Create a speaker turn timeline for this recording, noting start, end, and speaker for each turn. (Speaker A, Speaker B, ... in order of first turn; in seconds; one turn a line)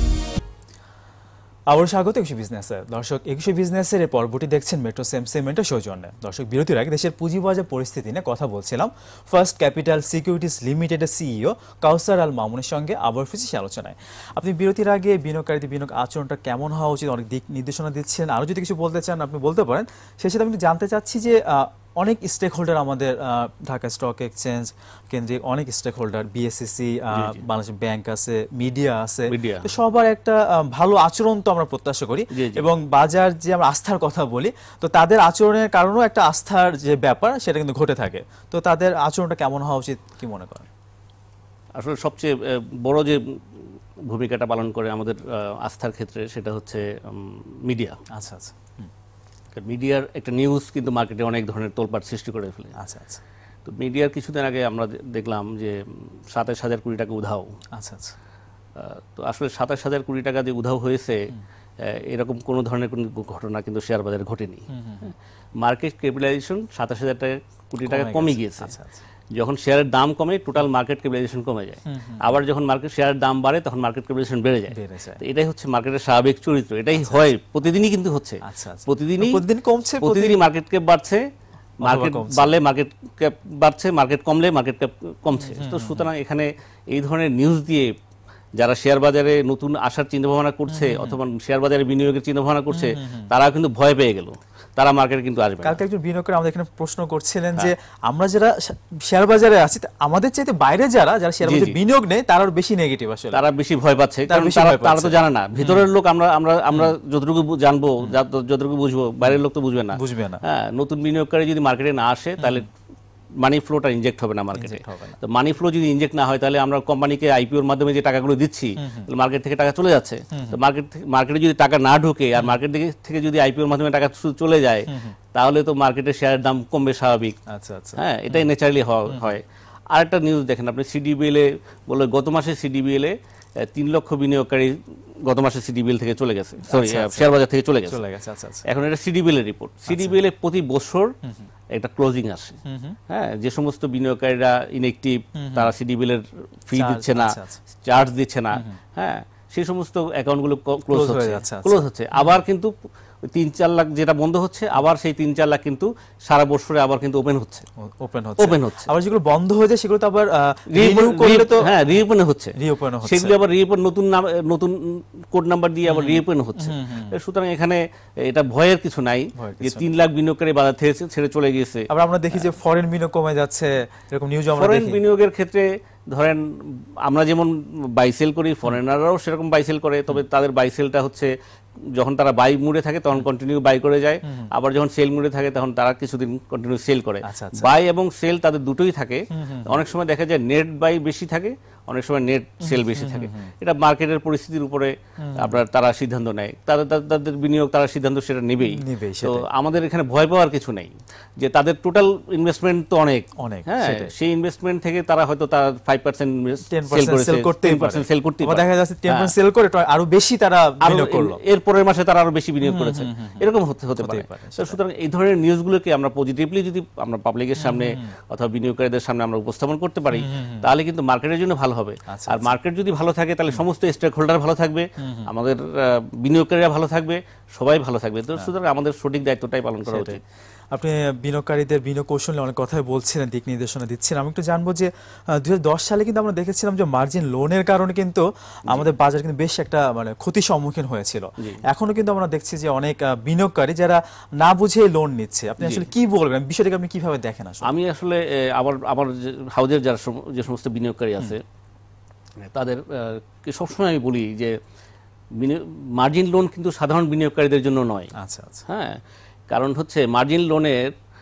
Speaker A: 1.7-40.7
Speaker B: 27.1-27.4
Speaker B: 29.3-29.7
Speaker B: 32.3-32.6
Speaker B: 41.8-48.0
Speaker A: 48.1-48.9
Speaker B: 49.5-52.8
Speaker A: 52.8-53.2
Speaker B: 53.6-57.6
Speaker A: 57.8-58.1
Speaker B: 58.8-68.7
Speaker A: 64.7-65.1
Speaker A: 67.8-69.0
Speaker B: 69.3-79.4
Speaker A: 71.9-72.4
Speaker A: 74.7-75.2
Speaker A: 76.9-77.3
Speaker A: 78.4-80.5
Speaker B: 80.0-81.2
Speaker B: 81.8-87.9
Speaker A: 81.8-82.6
Speaker A: 85.4-86.1
Speaker B: 88.6-95.8
Speaker A: 90.7-91.2
Speaker A: 92.7-93.3
Speaker A: 95.6-103.4
Speaker B: 101.4-101.8
Speaker B: 103.3-112.7
Speaker A: 104.3-105.9
Speaker A: 109.2-110.4
Speaker A: 112.4-112.6
Speaker B: 113.4-127.4
Speaker A: 114.5-115.2
Speaker A: 118.8-119.1
Speaker A: 120.3-120.6
Speaker A: 124.9-125.2
Speaker A: 127.5-128.5
Speaker B: 128.0-138.0
Speaker A: 129.1-129.3
Speaker A: 136.7-138.7
Speaker B: 138.7-141.2
Speaker A: 139.9-140.2
Speaker B: 141.7-157.7
Speaker A: 142.7-143.0
Speaker A: 145.3-145.7
Speaker A: 146.7-147.6
Speaker A: 148.5-148.8
Speaker A: 150.9-152.4
Speaker A: 157.8-161.9
Speaker B: 158.4-158.9
Speaker B: 160.7-172.5
Speaker A: 162.6-163.3
Speaker A: 165.8-167.2
Speaker A: 169.4-169.9
Speaker A: 171.9-175.0
Speaker B: 174.6-209.3
Speaker A: 187.2-187.7
Speaker A: 189.3-189.8
Speaker A: 192.6-193.5
Speaker A: 195.2-195.6
Speaker A: 198.6-199.4
Speaker A: 203.4-204.1
Speaker A: 206.7-211.4
Speaker B: 210.8-230.2
Speaker A: 212.6-214.8
Speaker A: 217.6-218.2
Speaker A: 220.1-220.7
Speaker A: 222.1-222.6
Speaker A: 225.0-225.3
Speaker A: 229.8-230.2
Speaker A: 230.7-247.7
Speaker B: 245.6-245.9
Speaker B: 247.6-251.4
Speaker B: 252.4-254.6
Speaker B: 255.4-258.1
Speaker A: 258.2-258.6
Speaker B: 258.7-260.9